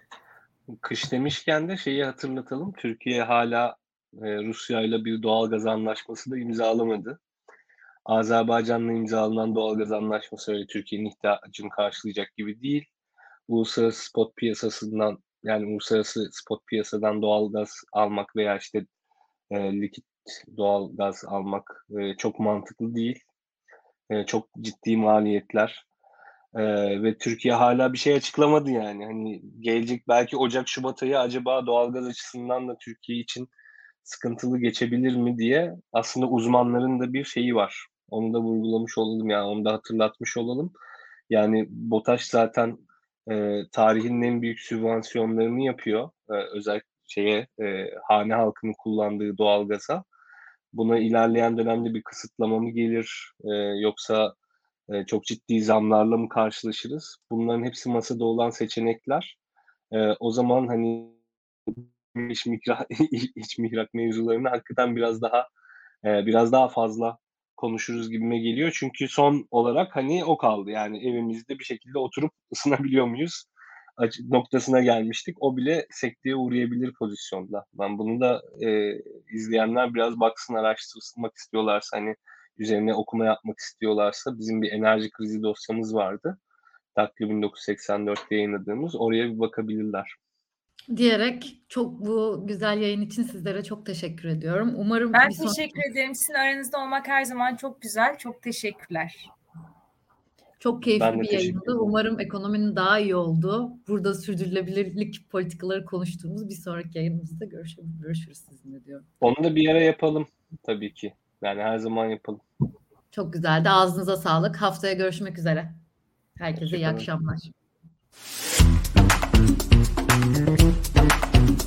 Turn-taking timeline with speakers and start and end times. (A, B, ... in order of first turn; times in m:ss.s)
0:00.7-0:07.2 A
0:08.1-0:12.9 A
0:13.5-0:18.8 A
0:19.5-0:23.2 A
0:24.1-0:25.8 A
0:26.5-0:33.5 A
0:34.0-0:40.7 A
0:41.3-0:50.0 A
0:50.7-0:54.4 A
0:54.9-0:59.4 A
0:59.9-1:01.2 A
1:01.7-1:05.5 A
1:06.0-1:13.5 A
1:14.0-1:26.4 A
1:27.0-1:30.2 A
1:30.9-1:35.8 B
1:35.1-1:39.3 C
1:40.6-1:49.1 B
1:40.8-1:41.8 A
1:49.2-1:52.4 A
1:53.1-1:55.8 B
1:56.4-1:57.5 B
1:56.6-1:57.1 A